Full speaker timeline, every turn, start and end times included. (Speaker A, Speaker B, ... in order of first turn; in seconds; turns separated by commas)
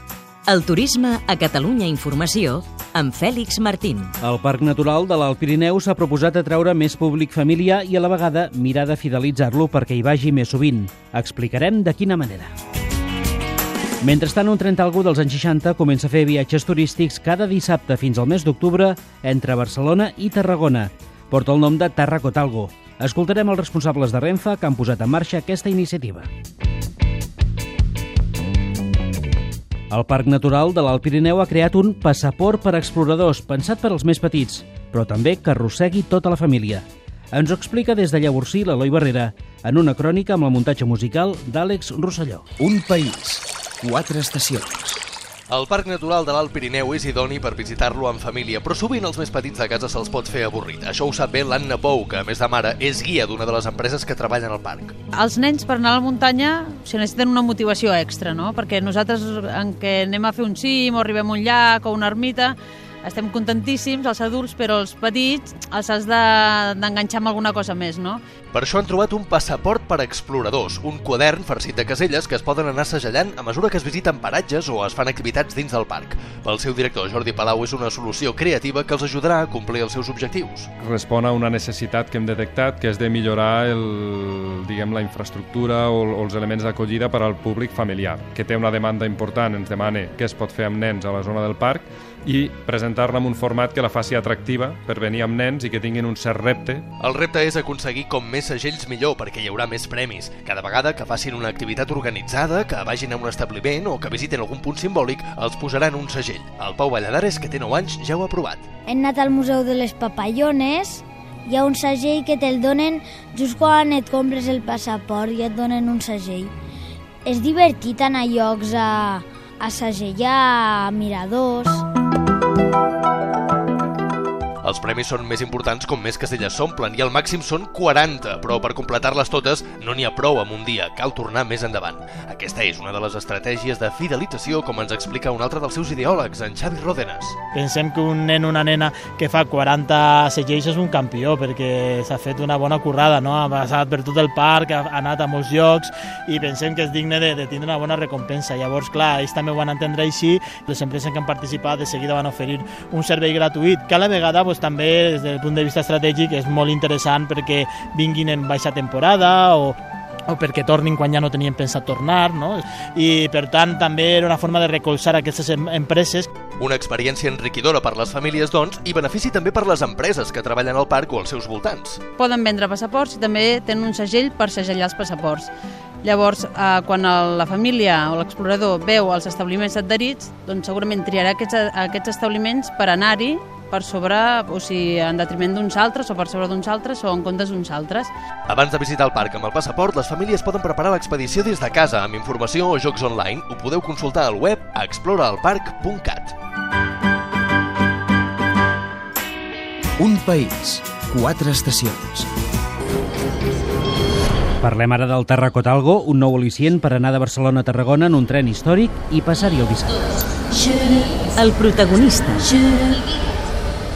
Speaker A: 0.5-4.1, Speaker B: 4.2-12.5, Speaker B: 14.0-26.3, Speaker B: 29.9-42.5, Speaker C: 42.6-45.0, Speaker D: 45.5-55.0, Speaker E: 55.1-68.2, Speaker D: 68.5-80.7, Speaker F: 80.8-96.8, Speaker D: 97.0-108.6, Speaker G: 108.9-116.5, Speaker G: 117.2-121.8, Speaker D: 124.6-137.4, Speaker H: 137.5-159.8, Speaker H: 160.3-166.3, Speaker D: 166.6-172.0, Speaker E: 172.2-175.5, Speaker E: 176.0-188.1, Speaker D: 188.5-196.3, Speaker C: 200.0-202.3, Speaker B: 204.6-210.0, Speaker A: 211.4-212.5